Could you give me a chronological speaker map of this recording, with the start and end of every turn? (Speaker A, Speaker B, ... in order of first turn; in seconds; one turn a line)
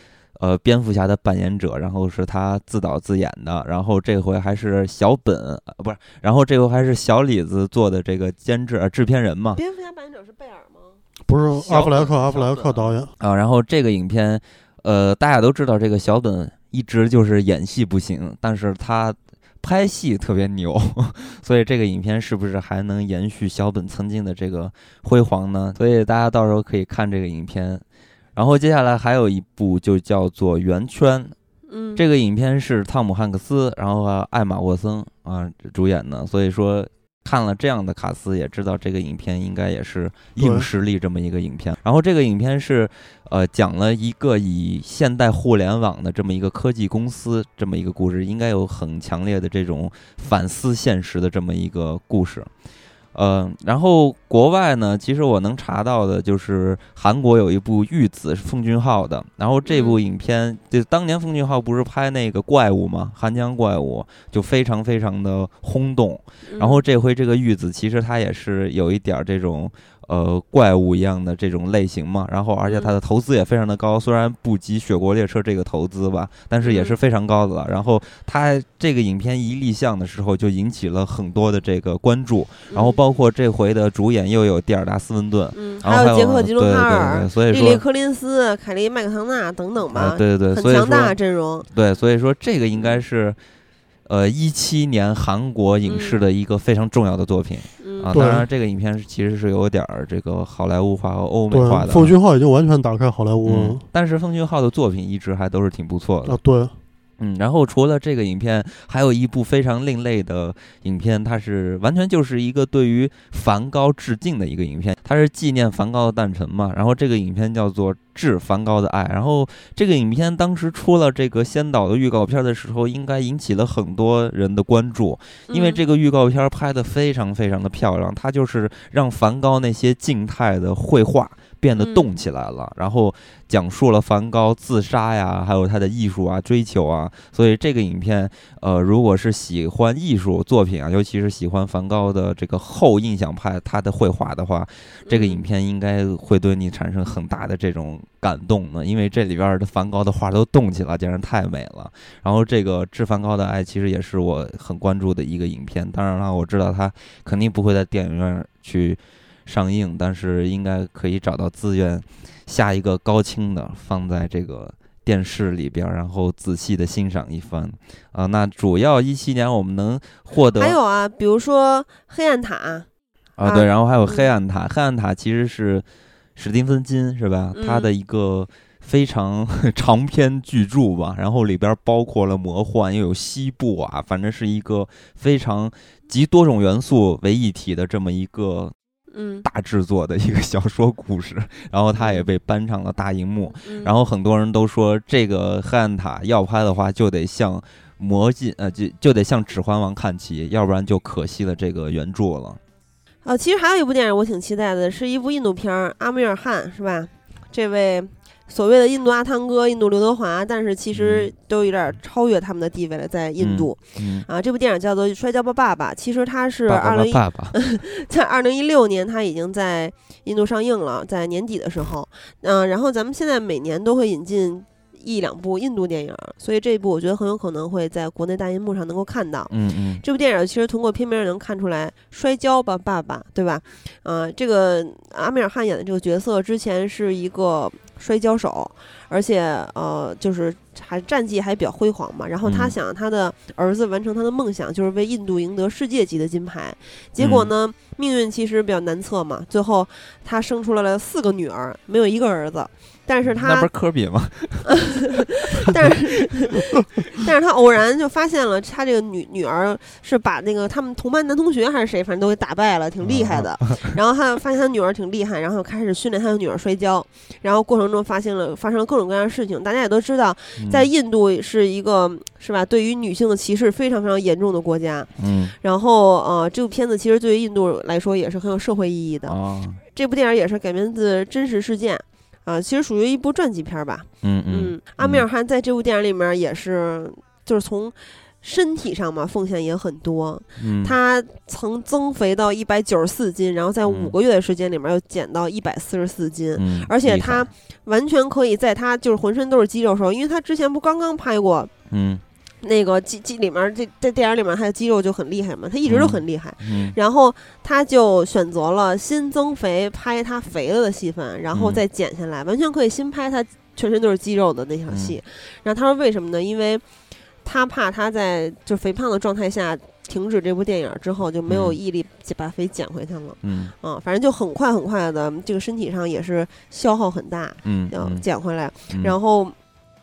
Speaker A: 0.4-9.6
Speaker B: 9.5-10.9
Speaker C: 11.3-13.1
Speaker A: 11.6-12.1
Speaker B: 11.8-12.7
Speaker A: 13.2-27.8
Speaker A: 28.4-31.3
Speaker B: 31.7-32.0
Speaker A: 31.9-52.5
Speaker C: 40.4-40.7
Speaker A: 53.1-87.8
Speaker B: 59.6-60.0
Speaker B: 66.5-66.8
Speaker B: 72.6-73.0
Speaker B: 76.6-77.0
Speaker B: 82.7-83.0
Speaker B: 85.5-91.7
Speaker A: 89.9-91.2
Speaker A: 91.7-93.4
Speaker B: 92.7-93.0
Speaker A: 94.0-102.1
Speaker B: 95.9-96.2
Speaker B: 97.8-98.2
Speaker C: 98.1-98.5
Speaker C: 101.5-103.8
Speaker A: 103.4-106.4
Speaker C: 106.2-106.7
Speaker A: 107.2-170.8
Speaker B: 125.5-125.8
Speaker B: 131.7-132.1
Speaker B: 145.1-145.4
Speaker B: 170.6-172.9
Speaker A: 173.4-175.8
Speaker B: 173.4-174.3
Speaker A: 176.3-188.7
Speaker B: 177.5-177.9
Speaker B: 189.1-189.4
Speaker A: 189.4-202.6
Speaker B: 192.0-192.3
Speaker B: 193.6-193.9
Speaker B: 203.2-253.7
Speaker A: 210.9-211.3
Speaker A: 213.4-214.2
Speaker A: 216.7-217.5
Speaker A: 229.5-230.0
Speaker A: 242.4-242.7
Speaker A: 247.2-247.5
Speaker A: 253.3-255.0
Speaker B: 254.7-279.3
Speaker A: 255.6-255.9
Speaker A: 263.0-263.9
Speaker A: 270.6-270.9
Speaker A: 275.2-275.5
Speaker A: 279.2-279.8
Speaker B: 279.9-301.7
Speaker A: 284.2-285.2
Speaker A: 290.6-290.9
Speaker A: 293.9-294.1
Speaker A: 296.6-297.5
Speaker A: 301.9-302.2
Speaker B: 302.6-316.8
Speaker A: 305.9-306.9
Speaker A: 311.5-311.8
Speaker A: 314.9-315.2
Speaker B: 317.4-329.5
Speaker A: 321.5-321.8
Speaker A: 323.4-323.7
Speaker A: 327.6-328.2
Speaker A: 328.9-329.1